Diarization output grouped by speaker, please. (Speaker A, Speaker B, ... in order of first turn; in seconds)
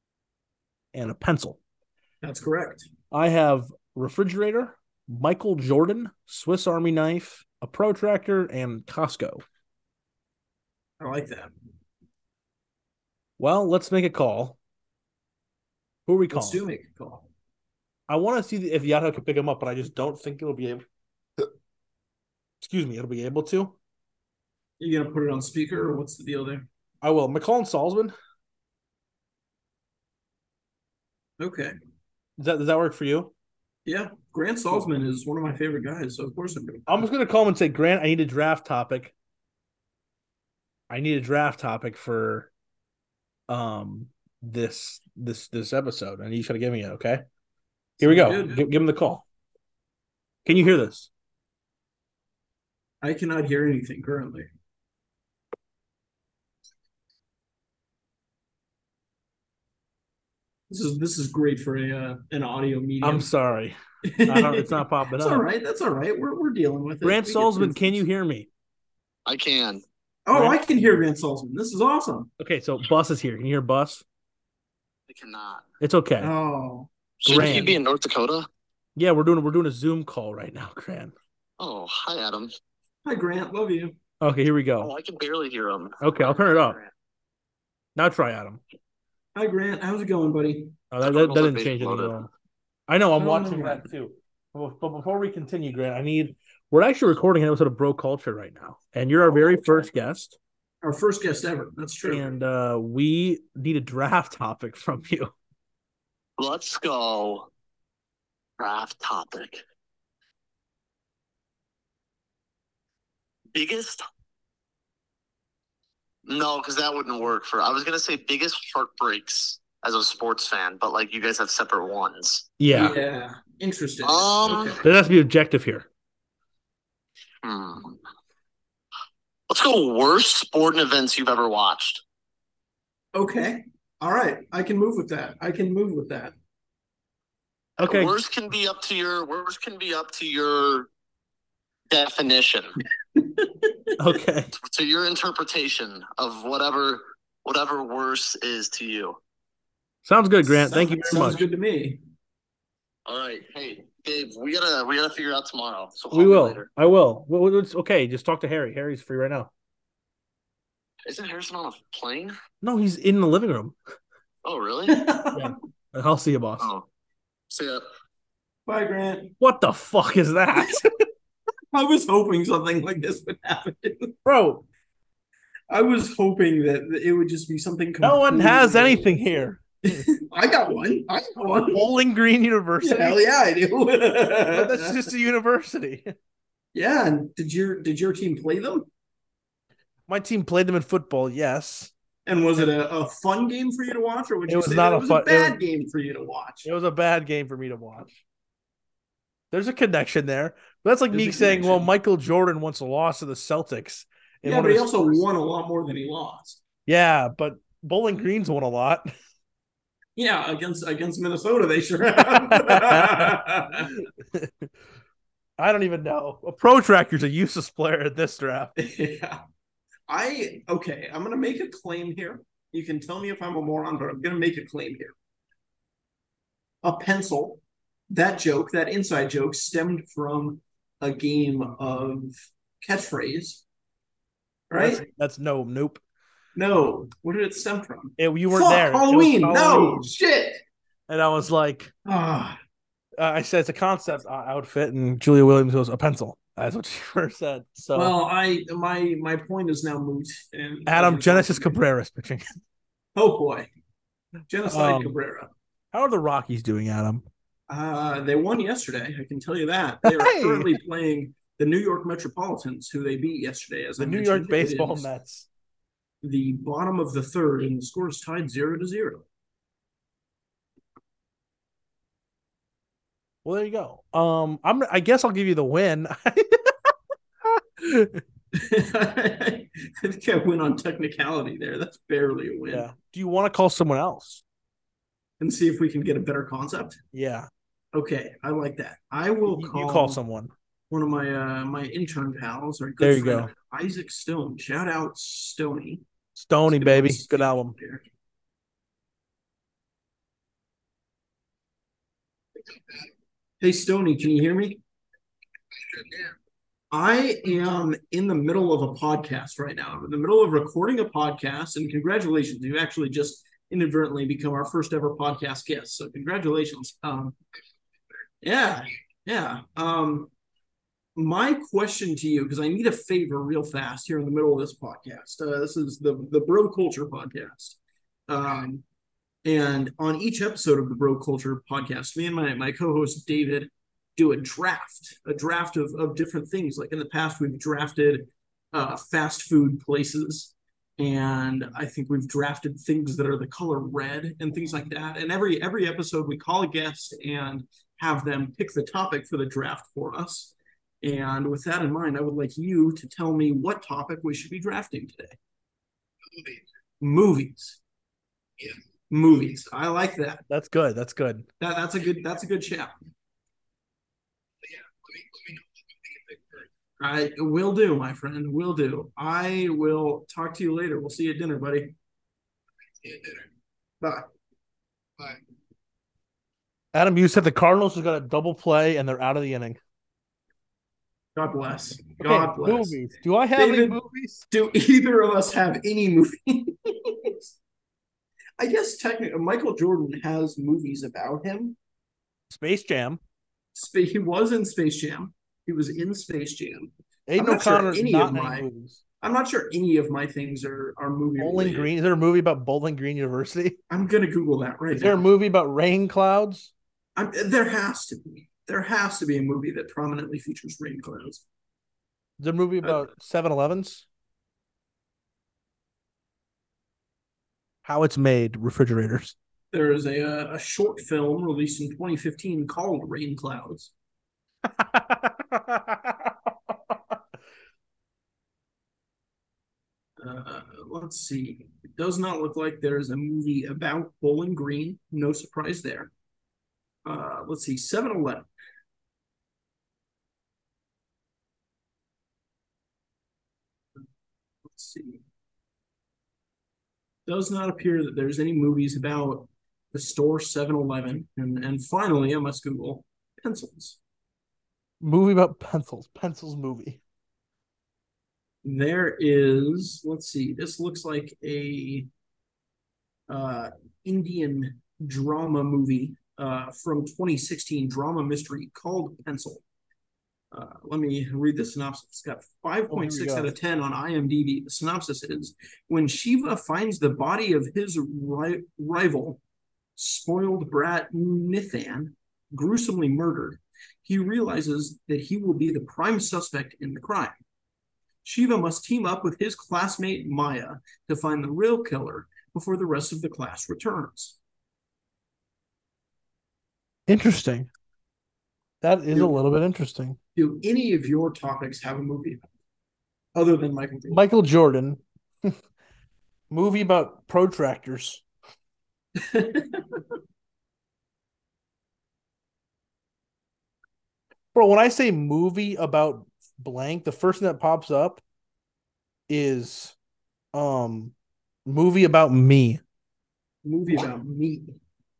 Speaker A: 0.9-1.6, 3.1-9.4, 13.4-14.6, 16.1-16.6, 18.1-20.8, 22.6-23.7, 27.0-28.1, 32.4-33.3, 36.9-39.1, 40.9-42.5, 43.5-47.2, 48.0-49.2, 50.4-51.1, 63.0-65.5, 67.0-68.5, 70.3-71.0, 72.4-74.0, 75.8-76.3, 77.2-77.8, 79.0-81.1, 84.2-84.9, 86.0-86.8, 88.0-88.6, 90.9-92.3, 92.9-100.4, 102.0-105.3, 122.6-123.0, 124.8-125.9, 137.8-138.1, 144.0-144.5, 150.0-151.4, 156.1-159.5, 162.6-163.8, 165.3-166.7, 169.4-170.9, 174.2-174.6, 178.0-180.0, 181.6-183.2, 184.5-186.1, 190.1-191.9, 194.5-195.6, 196.6-198.2, 199.5-205.2, 206.8-209.1, 212.3-213.4, 213.9-214.5, 215.6-218.8, 234.7-236.0, 238.2-240.1, 241.1-241.9, 243.2-248.1, 250.9-252.6, 254.7-255.2, 255.9-257.2, 260.0-260.8, 264.0-265.5, 273.4-276.7, 277.5-278.2, 282.7-284.4, 287.1-287.5, 289.5-290.5, 293.0-293.5, 296.4-297.7, 360.5-361.5, 376.9-379.8, 382.2-384.4, 392.5-393.2, 397.3-399.0, 401.4-403.8, 404.9-406.7, 412.4-414.1, 417.8-419.4, 424.7-427.1, 455.0-457.0, 472.9-473.5, 497.1-497.7, 498.8-500.2, 504.1-505.6, 506.5-508.2, 514.5-518.2, 519.3-520.0, 520.5-521.1, 521.6-522.8
Speaker B: 2.2-2.9, 11.0-11.5, 16.3-17.3, 24.8-26.7, 31.4-31.7, 33.9-37.0, 48.0-48.6, 53.0-54.5, 60.7-63.3, 64.0-68.0, 70.3-72.3, 76.2-77.7, 83.0-84.0, 89.3-90.7, 93.2-93.9, 100.8-102.3, 122.7-124.8, 133.1-136.3, 143.2-143.8, 150.4-152.0, 164.9-165.5, 168.7-169.3, 171.7-174.2, 175.7-179.2, 179.8-181.8, 182.8-185.0, 186.7-188.9, 192.2-196.7, 201.1-201.9, 204.4-206.6, 210.2-213.9, 218.8-219.4, 220.1-225.1, 226.8-233.6, 234.7-235.0, 236.5-240.6, 242.0-242.6, 247.9-251.8, 253.1-253.7, 254.5-255.5, 257.7-265.1, 266.2-269.2, 278.5-282.9, 285.4-287.0, 287.9-290.2, 290.9-296.0, 296.7-298.1, 303.6-304.8, 306.9-317.4, 318.4-320.3, 321.1-328.8, 329.4-355.4, 357.0-357.8, 358.6-360.4, 361.6-362.9, 367.0-371.9, 373.0-373.4, 374.0-374.3, 381.3-383.0, 383.6-384.0, 384.5-387.5, 388.6-391.8, 393.7-398.6, 399.2-401.9, 403.9-405.2, 407.1-411.4, 419.7-423.9, 430.2-436.1, 437.0-438.5, 444.6-445.2, 447.2-454.0, 458.6-462.1, 463.3-469.6, 470.5-479.4, 479.9-487.4, 488.2-494.4, 500.3-502.4, 503.3-504.2, 509.1-510.0, 523.6-524.8
Speaker C: 69.2-69.8, 75.1-75.7, 77.2-78.5, 81.6-82.5, 84.8-86.9, 91.0-92.2, 106.4-107.5, 108.6-109.6, 113.5-114.0, 116.2-122.5, 124.0-124.8, 127.4-128.0, 129.5-132.0, 137.8-140.9, 141.9-142.8, 144.6-149.2, 153.1-156.7, 161.1-162.3, 164.4-165.0, 167.5-167.8